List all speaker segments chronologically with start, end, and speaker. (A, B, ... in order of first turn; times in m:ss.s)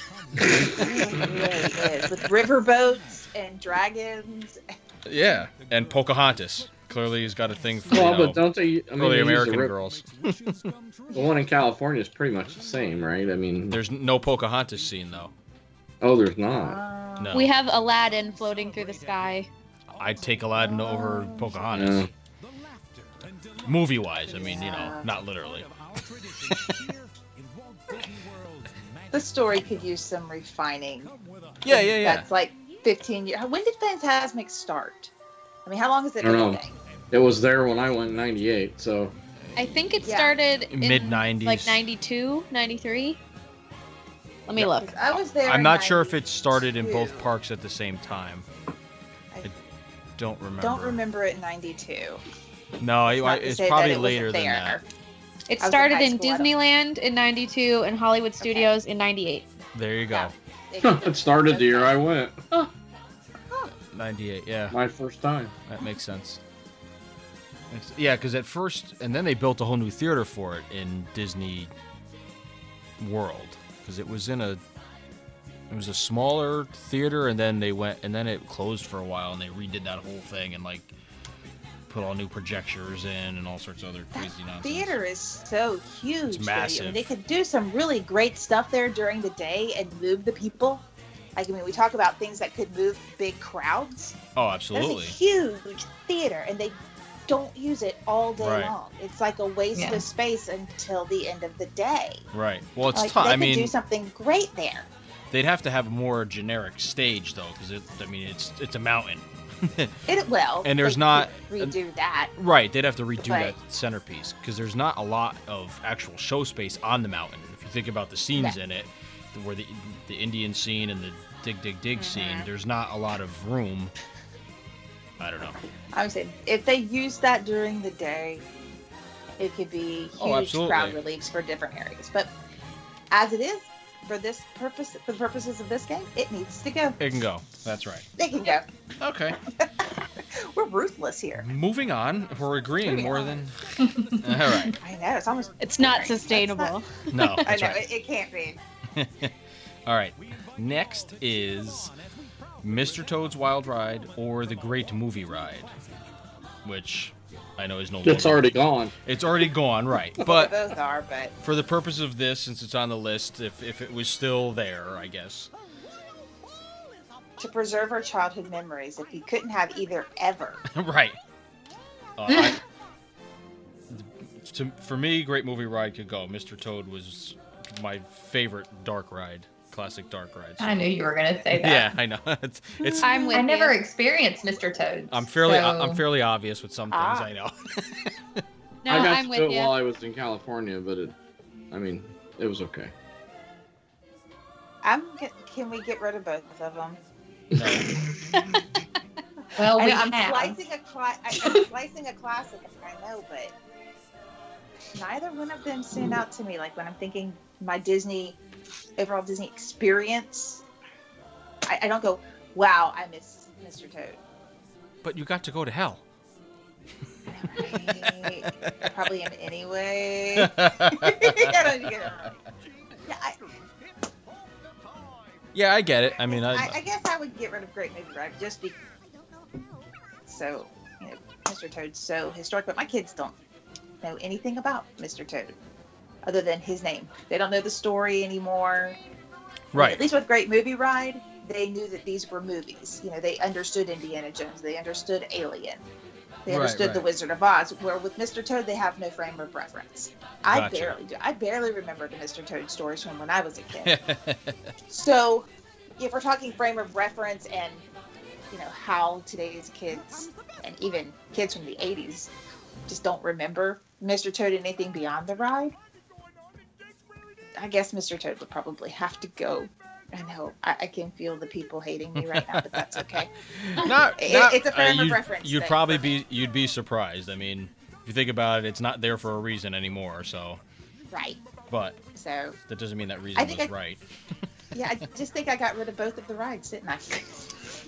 0:00.3-0:01.9 A
0:00.7-0:04.6 B
0:05.1-0:08.4 A
0:07.9-0:09.8 C
0:09.0-0:10.7 A
0:11.1-0:13.8 C
0:13.7-0:15.3 A
0:16.0-0:16.8 C
0:16.6-0:17.4 B
0:17.2-0:17.5 A
0:17.3-0:19.5 D
0:20.0-0:22.1 A
0:20.6-0:21.6 B
0:21.7-0:22.1 C
0:23.6-0:25.7 A
0:24.2-0:25.1 B
0:26.2-0:26.9 A
0:29.1-0:31.1 B
0:31.6-0:32.3 A
0:31.7-0:35.1 B
0:35.7-0:36.8 B
0:36.2-0:39.2 C
0:39.6-0:43.2 D
0:40.0-0:40.4 B
0:40.7-0:41.8 A
0:44.5-0:44.9 D
0:44.6-0:47.3 B
0:45.4-0:48.5 A
0:50.2-0:51.0 A
0:50.6-0:52.2 B
0:52.8-0:54.8 A
0:53.1-0:54.8 B
0:55.5-0:59.5 D
0:55.6-0:56.5 B
0:58.4-0:58.7 B
0:59.7-1:00.3 A
1:00.1-1:02.0 B
1:00.8-1:02.7 C
1:03.9-1:04.8 A
1:04.7-1:05.5 C
1:05.7-1:06.4 A
1:07.7-1:11.7 A
1:13.0-1:14.6 A
1:15.7-1:20.9 A
1:21.9-1:25.0 A
1:24.2-1:30.8 B
1:26.3-1:27.1 A
1:31.4-1:34.2 B
1:34.4-1:35.2 A
1:34.7-1:42.2 B
1:38.4-1:38.7 A
1:39.7-1:40.0 E
1:42.3-1:43.7 A
1:42.9-1:44.9 B
1:45.3-1:50.0 A
1:50.1-1:52.3 B
1:50.6-1:51.8 A
1:52.4-2:03.9 A
1:53.2-1:53.6 B
2:02.0-2:02.5 B
2:05.2-2:05.6 A
2:05.9-2:08.4 B
2:09.4-2:12.3 B
2:10.2-2:11.0 A
2:13.1-2:17.0 B
2:17.0-2:18.1 A
2:18.2-2:18.6 B
2:19.0-2:19.4 A
2:19.6-2:21.5 B
2:21.4-2:23.6 A
2:22.8-2:23.4 B
2:23.8-2:24.2 E
2:24.1-2:24.8 A
2:24.8-2:26.8 B
2:25.6-2:27.4 D
2:27.1-2:27.8 A
2:27.4-2:28.6 B
2:29.0-2:29.3 A
2:29.9-2:31.9 A
2:32.6-2:35.7 A
2:36.6-2:38.5 A
2:38.0-2:38.9 C
2:39.0-2:40.5 A
2:40.2-2:41.4 B
2:41.4-2:45.5 A
2:47.4-2:50.6 B
2:50.7-2:51.2 A
2:52.2-2:52.6 A
2:53.9-3:00.9 A
3:00.6-3:01.9 E
3:01.6-3:03.3 A
3:02.8-3:03.4 B
3:03.0-3:03.8 D
3:03.2-3:06.0 E
3:05.1-3:08.4 A
3:06.9-3:07.3 B
3:08.8-3:09.7 D
3:08.9-3:11.2 C
3:11.7-3:12.9 C
3:14.8-3:17.0 B
3:17.5-3:17.9 A
3:19.6-3:20.6 E
3:19.7-3:23.5 B
3:25.0-3:28.4 B
3:29.0-3:30.6 B
3:31.6-3:34.2 B
3:35.0-3:36.0 A
3:37.3-3:42.4 B
3:37.6-3:38.7 A
3:40.4-3:41.9 A
3:43.1-3:43.4 B
3:45.6-3:46.8 A
3:46.3-3:48.8 B
3:50.3-3:53.4 B
3:54.0-3:55.6 B
3:56.2-3:59.0 B
3:59.7-4:00.0 A
3:59.7-4:05.9 B
4:06.5-4:14.0 B
4:06.5-4:07.1 A
4:10.5-4:11.0 A
4:13.8-4:14.7 A
4:14.9-4:17.8 B
4:18.5-4:22.3 B
4:22.9-4:25.7 B
4:27.6-4:36.1 B
4:32.2-4:40.6 A
4:41.1-4:41.4 B
4:41.7-4:42.0 A
4:42.2-4:42.6 B
4:42.7-4:44.0 A
4:43.4-4:43.7 B
4:44.7-4:47.7 B